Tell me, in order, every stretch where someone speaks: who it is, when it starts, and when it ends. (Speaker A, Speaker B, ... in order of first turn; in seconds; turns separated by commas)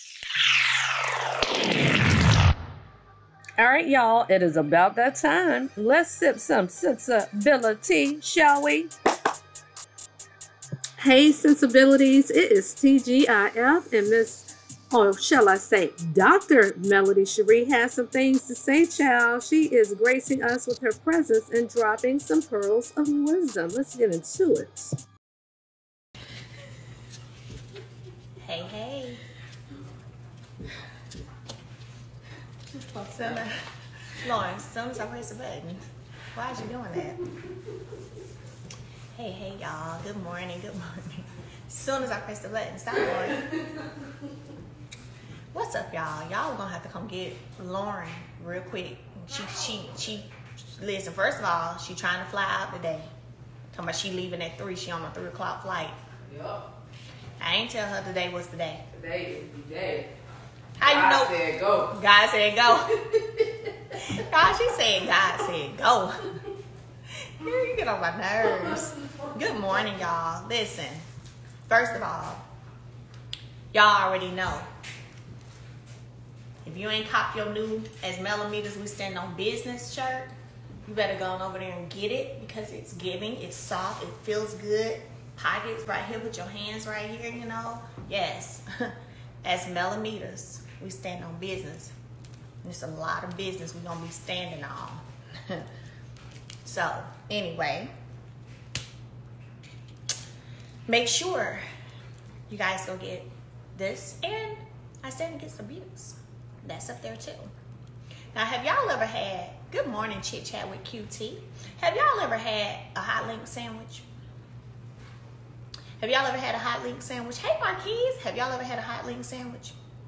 Speaker A: 3.6-8.9, Speaker A: 11.0-24.9, Speaker B: 28.4-29.2, Speaker C: 32.7-33.5, Speaker B: 33.1-35.8, Speaker B: 36.3-37.2, Speaker B: 39.1-43.5, Speaker B: 45.5-53.1, Speaker B: 53.7-56.0, Speaker C: 56.2-56.7, Speaker B: 57.4-58.8, Speaker C: 58.9-60.1, Speaker B: 60.8-61.3, Speaker C: 60.8-62.0, Speaker B: 61.9-63.0, Speaker C: 63.1-63.4, Speaker B: 64.0-66.3, Speaker B: 67.4-71.0, Speaker C: 68.4-69.3, Speaker B: 71.7-72.4, Speaker B: 73.7-74.7, Speaker B: 76.6-80.3, Speaker B: 80.8-88.9, Speaker B: 89.4-91.9, Speaker B: 92.6-95.7, Speaker B: 96.6-97.9, Speaker B: 100.9-101.6, Speaker B: 102.5-107.5, Speaker B: 108.3-114.0, Speaker B: 116.0-119.8